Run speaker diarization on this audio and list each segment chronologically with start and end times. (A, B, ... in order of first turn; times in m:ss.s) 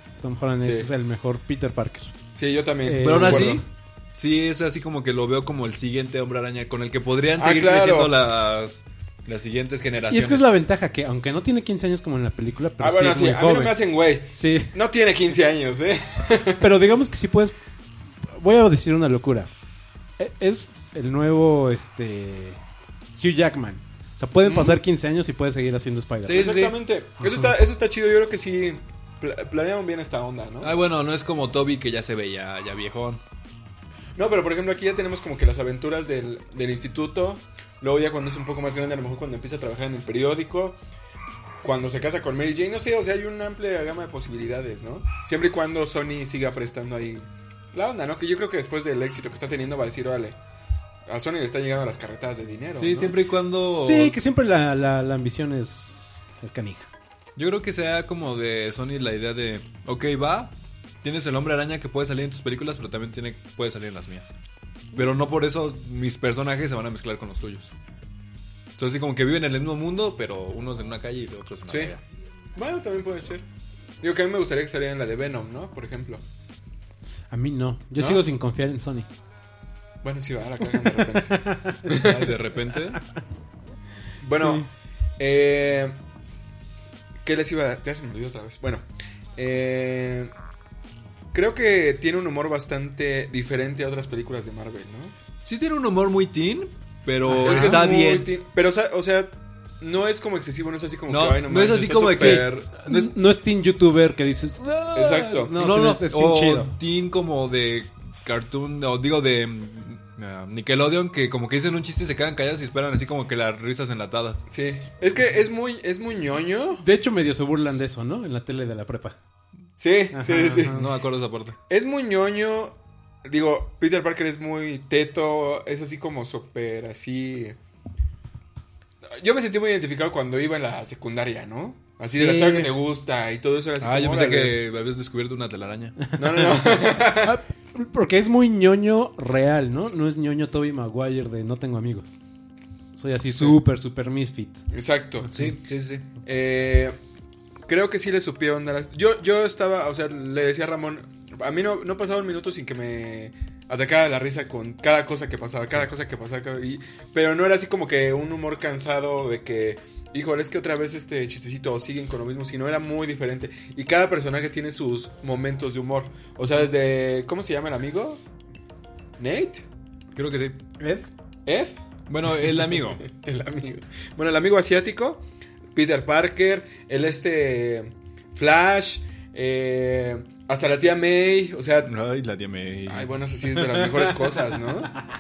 0:00.2-0:02.1 A
0:00.6-0:00.9 B
0:02.4-0:03.6 B
0:02.8-0:03.6 A
0:03.0-0:10.5 C
0:07.4-0:08.1 B
0:10.1-0:13.8 A
0:12.8-0:16.7 B
0:14.3-0:14.8 A
0:16.6-0:17.6 A
0:18.3-0:19.5 A
0:20.2-0:22.6 A
0:23.2-0:26.6 A
0:24.4-0:24.8 C
0:26.2-0:26.8 C
0:26.3-0:30.8 B
0:30.6-0:33.2 C
0:34.2-0:40.8 B
0:41.6-0:50.4 B
0:51.1-0:53.2 B
0:52.8-0:54.2 C
0:53.7-0:56.9 A
0:57.4-1:04.4 C
1:05.0-1:07.7 C
1:08.8-1:12.0 C
1:12.6-1:13.4 B
1:14.0-1:16.2 B
1:17.3-1:19.1 A
1:18.0-1:18.2 B
1:20.0-1:22.3 B
1:21.0-1:22.0 A
1:21.9-1:23.0 C
1:24.2-1:24.7 B
1:24.3-1:24.7 A
1:25.2-1:25.9 B
1:27.2-1:28.8 B
1:29.4-1:30.3 B
1:31.3-1:35.1 B
1:35.4-1:38.3 C
1:37.3-1:37.8 A
1:37.4-1:42.7 B
1:41.1-1:43.1 C
1:42.2-1:46.7 A
1:45.0-1:45.5 B
1:45.6-1:54.4 C
1:54.5-1:56.8 B
1:56.8-1:59.2 A
1:59.8-2:00.8 B
2:00.1-2:00.8 A
2:00.6-2:01.6 C
2:01.7-2:07.6 B
2:09.1-2:14.6 B
2:12.1-2:12.7 A
2:13.8-2:16.1 C
2:16.1-2:22.2 A
2:16.2-2:17.4 B
2:23.0-2:24.6 A
2:24.7-2:25.3 B
2:25.3-2:26.0 C
2:26.2-2:27.0 B
2:27.7-2:48.2 B
2:49.2-2:49.6 B
2:50.1-2:50.6 C
2:50.8-2:51.1 A
2:51.4-2:51.8 B
2:52.1-2:53.0 C
2:52.4-3:01.9 B
3:01.8-3:03.1 C
3:02.9-3:04.9 B